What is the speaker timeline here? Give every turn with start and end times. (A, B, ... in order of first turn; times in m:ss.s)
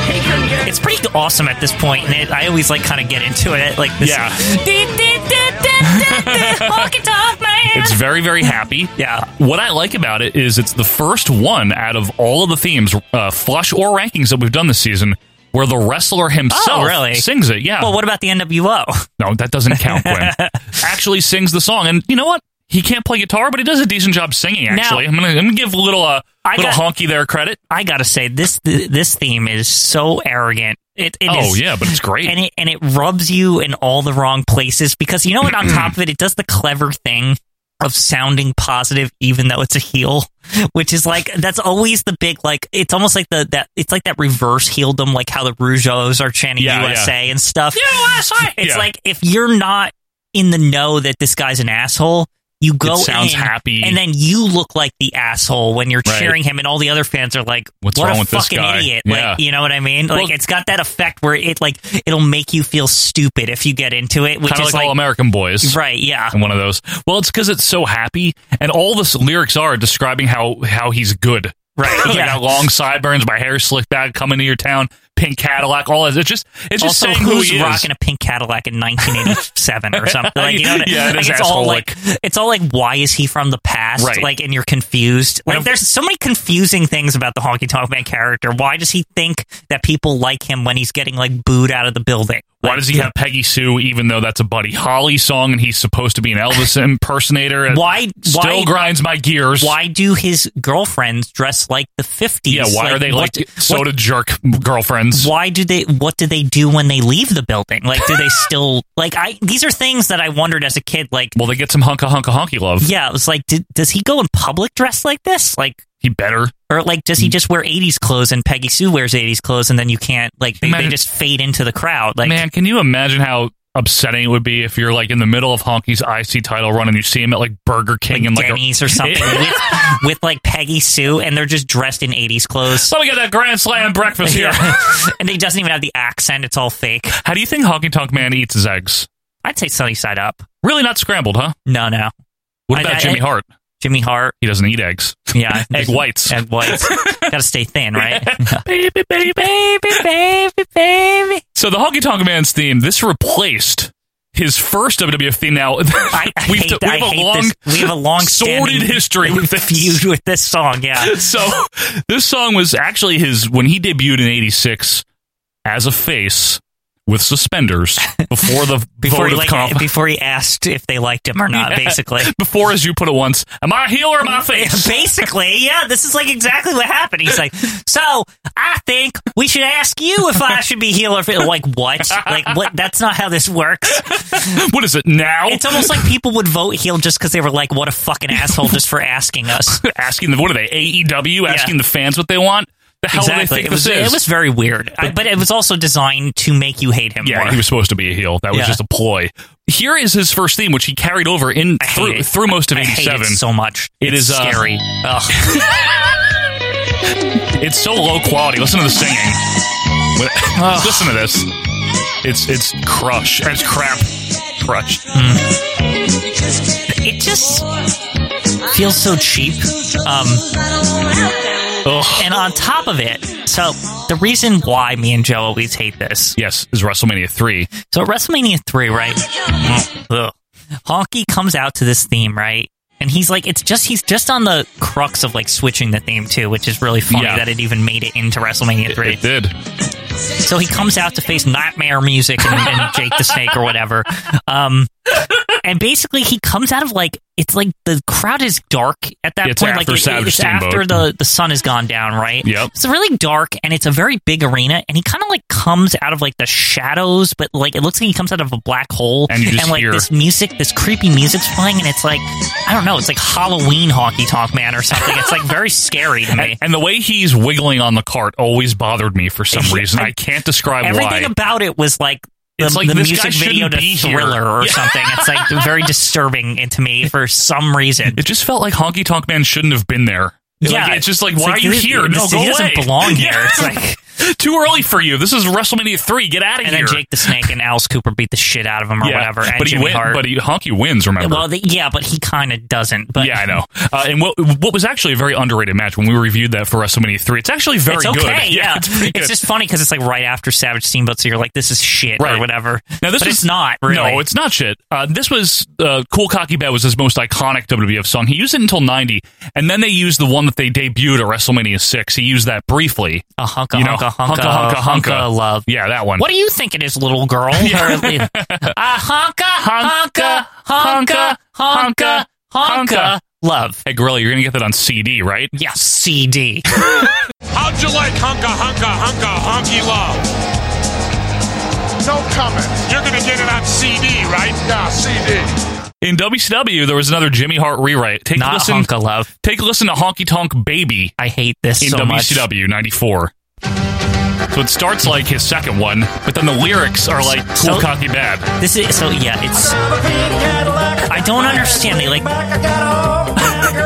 0:00.6-0:09.3 A
0:04.0-0:04.4 B
0:05.8-0:06.9 B
0:07.7-0:18.0 B
0:16.5-0:17.3 A
0:17.8-0:19.1 A
0:19.2-0:27.6 B
0:19.7-0:20.8 A
0:24.7-0:25.0 A
0:26.4-0:26.8 A
0:27.7-0:47.8 A
0:31.3-0:32.4 B
0:35.6-0:35.9 B
0:46.6-0:47.2 B
0:47.7-0:48.9 B
0:48.4-1:05.0 A
0:52.8-0:54.0 B
0:56.1-0:56.4 B
0:57.8-0:59.4 B
1:04.4-1:05.8 B
1:05.6-1:06.4 A
1:06.3-1:17.9 B
1:11.8-1:12.5 A
1:16.8-1:33.1 A
1:19.0-1:19.4 B
1:20.0-1:21.9 B
1:24.0-1:24.3 B
1:25.5-1:25.7 B
1:32.6-1:39.7 B
1:37.7-1:38.8 A
1:39.6-1:43.9 A
1:42.5-1:45.3 B
1:45.1-1:51.4 A
1:48.0-1:48.4 B
1:51.4-1:52.9 B
1:52.8-1:55.8 A
1:56.0-1:56.5 B
1:56.7-2:02.4 A
2:00.6-2:01.0 B
2:02.2-2:09.9 B
2:08.1-2:12.9 A
2:12.7-2:15.0 B
2:14.2-2:17.2 A
2:17.2-2:19.1 B
2:19.4-2:20.5 A
2:20.6-2:21.6 B
2:21.7-2:22.1 A
2:22.7-2:23.5 B
2:22.7-2:23.2 A
2:23.8-2:24.4 A
2:24.4-2:27.3 B
2:25.3-2:28.6 A
2:28.0-2:30.0 B
2:29.3-2:31.4 A
2:31.6-2:40.0 B
2:36.1-2:41.2 A
2:41.0-2:45.0 B
2:45.6-2:49.9 B
2:49.0-2:52.3 A
2:51.5-2:54.9 B
2:54.5-3:04.6 A
3:02.1-3:02.6 B
3:04.0-3:06.1 B
3:05.5-3:09.8 A
3:08.4-3:08.7 B
3:09.8-3:14.2 B
3:11.5-3:11.7 A
3:13.1-3:17.6 A
3:17.2-3:23.4 B
3:18.5-3:18.8 A
3:21.8-3:25.5 A
3:24.0-3:24.7 B
3:25.4-3:26.2 B
3:27.3-3:29.4 B
3:30.2-3:31.5 B
3:30.6-3:31.1 A
3:32.2-3:35.0 B
3:35.1-3:35.5 A
3:36.9-3:37.7 A
3:38.7-3:40.4 A
3:41.8-3:42.3 B
3:42.2-3:46.4 A
3:46.4-3:47.7 B
3:47.9-3:50.3 A
3:50.9-3:59.2 A
3:57.1-3:57.4 B
3:58.9-3:59.6 B
4:00.4-4:04.9 A
4:02.5-4:03.2 B
4:05.6-4:26.6 A
4:09.4-4:11.1 B
4:12.4-4:12.7 B
4:19.3-4:20.1 B
4:26.3-4:31.3 B
4:29.5-4:30.2 A
4:30.8-4:38.2 A
4:32.6-4:35.9 B
4:38.2-4:47.5 B
4:40.6-4:44.0 A
4:46.6-4:50.2 A
4:49.0-4:51.4 B
4:51.2-4:53.5 A
4:53.2-4:59.3 B
4:57.9-5:04.2 A
5:02.2-5:02.5 B
5:03.0-5:16.2 B
5:13.4-5:23.8 A
5:17.5-5:18.8 B
5:19.6-5:23.2 B
5:23.8-5:25.5 B
5:25.5-5:26.7 A
5:27.5-5:30.2 C
5:32.0-5:35.5 C
5:36.0-5:38.9 B
5:38.4-5:39.3 A
5:39.4-5:41.2 B
5:41.2-5:42.5 A
5:41.8-5:43.3 B
5:44.5-5:48.5 B
5:47.2-5:47.9 A
5:48.6-5:49.8 A
5:51.0-5:52.4 A
5:53.4-5:53.8 B